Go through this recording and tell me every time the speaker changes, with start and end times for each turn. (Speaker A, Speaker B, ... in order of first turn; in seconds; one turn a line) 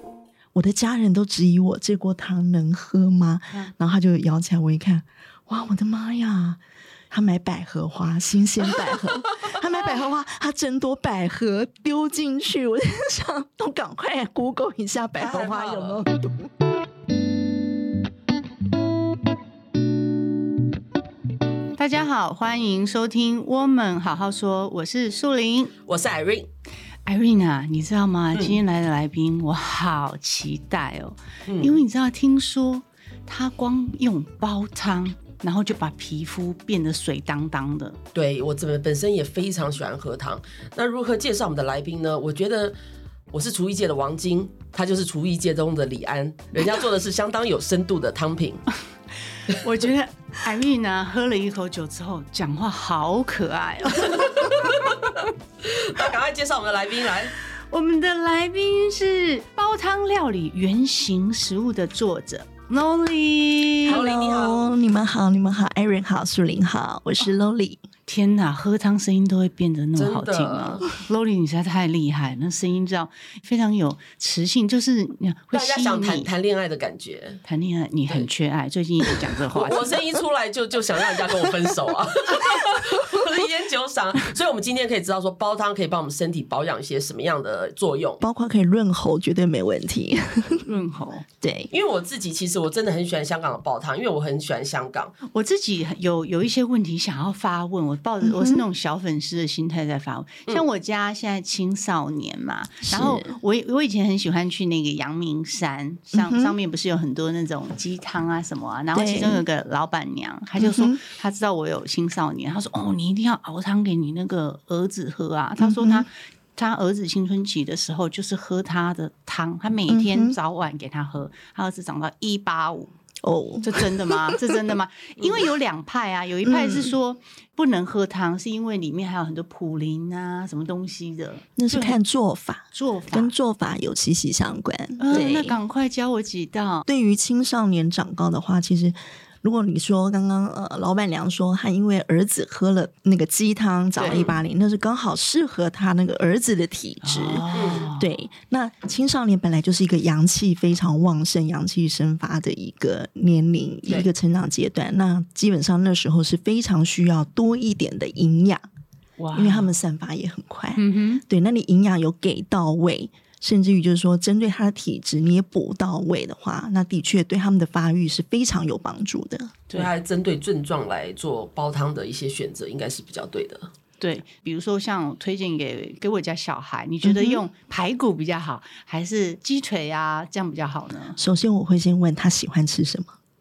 Speaker A: 0.5-16.5
Speaker B: 15.2-16.0
Speaker C: 21.8-25.7
Speaker B: 25.9-26.5
Speaker C: 27.1-38.0
Speaker B: 31.4-31.8
Speaker B: 38.1-42.7
Speaker B: 43.3-48.6
Speaker C: 49.5-54.9
Speaker B: 54.0-57.3
Speaker C: 57.7-64.0
Speaker B: 63.9-64.7
Speaker A: 63.9-67.8
Speaker C: 68.1-76.3
Speaker B: 70.0-70.9
Speaker B: 75.5-77.4
Speaker C: 77.5-80.0
Speaker B: 79.5-88.2
Speaker A: 88.2-90.7
Speaker C: 90.6-91.2
Speaker A: 91.4-91.7
Speaker B: 91.7-95.1
Speaker C: 95.3-122.9
Speaker A: 98.2-98.6
Speaker A: 102.8-103.3
Speaker A: 106.1-106.6
Speaker A: 108.9-109.4
Speaker A: 110.6-111.0
Speaker A: 115.6-116.1
Speaker A: 119.9-120.4
Speaker A: 123.2-124.6
Speaker C: 123.6-132.0
Speaker A: 126.4-127.0
Speaker A: 131.6-135.6
Speaker C: 132.7-133.3
Speaker C: 135.0-136.8
Speaker A: 136.8-158.6
Speaker C: 144.0-144.3
Speaker B: 144.1-144.3
Speaker C: 147.0-148.1
Speaker B: 147.5-147.9
Speaker C: 159.2-159.7
Speaker A: 159.3-169.6
Speaker C: 160.8-161.2
Speaker B: 169.7-173.7
Speaker C: 174.0-181.2
Speaker A: 177.0-177.4
Speaker A: 181.2-183.2